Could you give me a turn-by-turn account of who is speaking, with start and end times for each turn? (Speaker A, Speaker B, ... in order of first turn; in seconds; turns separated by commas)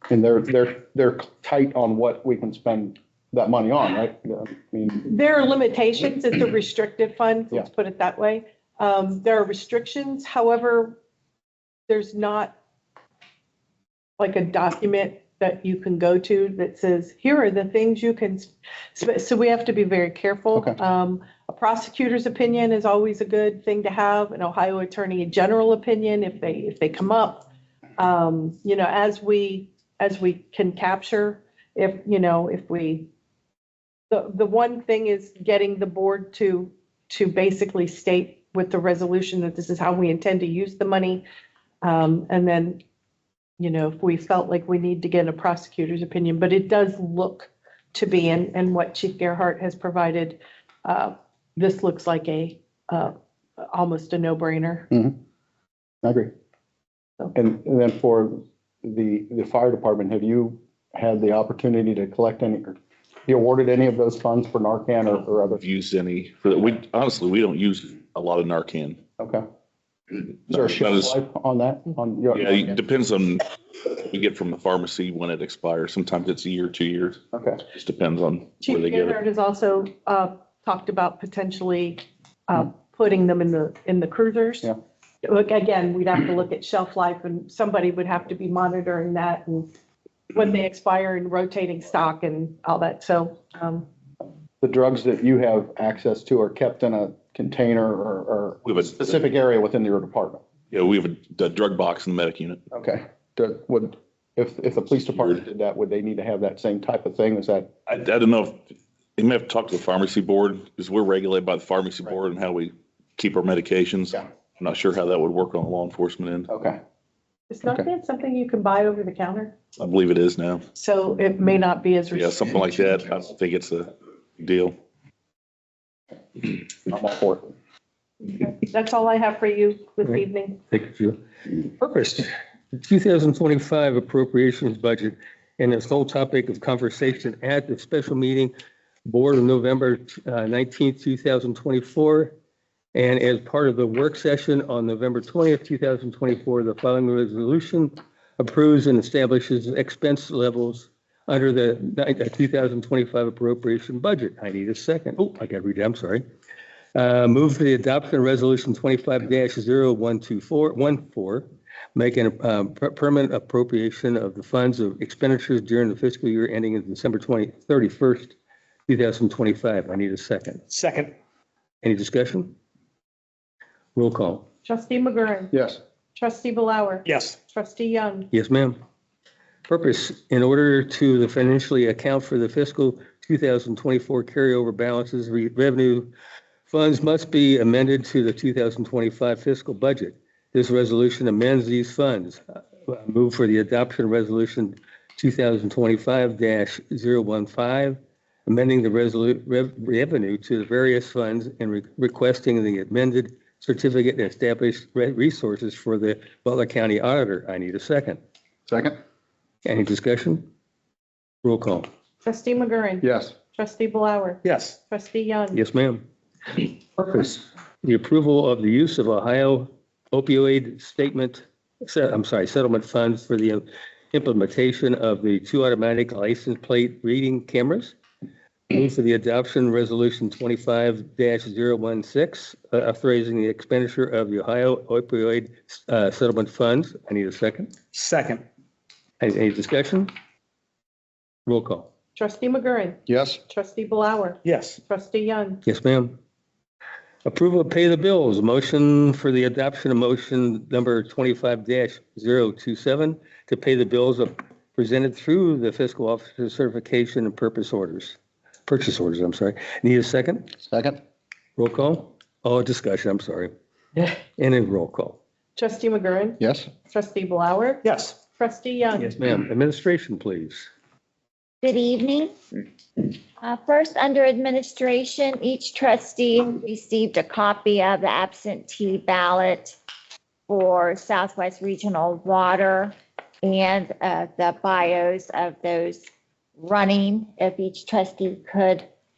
Speaker A: 0.1-5.1, Speaker B: 5.0-11.0, Speaker B: 11.9-12.6, Speaker B: 14.2-27.4, Speaker B: 28.0-33.1, Speaker B: 34.1-41.2, Speaker B: 41.8-42.8, Speaker B: 43.6-54.9, Speaker A: 54.9-55.2, Speaker A: 56.0-56.3, Speaker A: 57.3-62.8, Speaker A: 63.3-65.6, Speaker C: 65.5-69.0, Speaker C: 70.5-71.1, Speaker A: 70.5-72.7, Speaker C: 72.3-79.2, Speaker A: 77.3-77.6, Speaker B: 78.6-84.7, Speaker B: 85.2-89.7, Speaker B: 90.3-93.9, Speaker A: 94.6-100.4, Speaker C: 98.7-99.2, Speaker C: 100.7-102.6, Speaker A: 102.7-107.7, Speaker C: 107.9-108.6, Speaker C: 109.2-116.5, Speaker A: 116.5-116.8, Speaker B: 117.5-119.5, Speaker C: 119.8-120.6, Speaker B: 120.7-122.6, Speaker C: 122.1-124.8, Speaker A: 126.5-127.5, Speaker B: 128.2-130.6, Speaker D: 130.7-138.5, Speaker D: 139.1-142.3, Speaker D: 142.9-156.2, Speaker D: 156.9-168.3, Speaker D: 168.9-170.7, Speaker E: 170.7-171.1, Speaker D: 171.8-172.5, Speaker D: 173.9-174.4, Speaker B: 174.6-175.5, Speaker A: 175.5-175.8, Speaker B: 176.2-178.3, Speaker E: 177.1-177.4, Speaker D: 178.3-178.8, Speaker D: 179.7-186.1, Speaker D: 186.7-208.2, Speaker A: 208.7-208.9, Speaker D: 209.6-210.4, Speaker D: 211.4-211.9, Speaker B: 212.2-215.6, Speaker A: 213.0-213.3, Speaker E: 214.4-214.7, Speaker D: 215.5-228.0, Speaker D: 228.7-237.7, Speaker E: 237.9-238.4, Speaker D: 239.2-240.1, Speaker D: 241.4-241.9, Speaker B: 242.2-245.6, Speaker A: 243.1-243.4, Speaker E: 244.4-244.8, Speaker D: 245.6-246.2, Speaker D: 247.2-260.5, Speaker A: 260.6-261.0, Speaker D: 261.6-263.5, Speaker D: 264.4-265.2, Speaker B: 265.6-267.8, Speaker A: 266.4-266.7, Speaker E: 267.8-268.2, Speaker B: 268.4-269.1, Speaker D: 269.0-270.7, Speaker F: 271.6-272.3, Speaker F: 273.0-279.8, Speaker F: 280.5-286.0, Speaker F: 286.6-288.9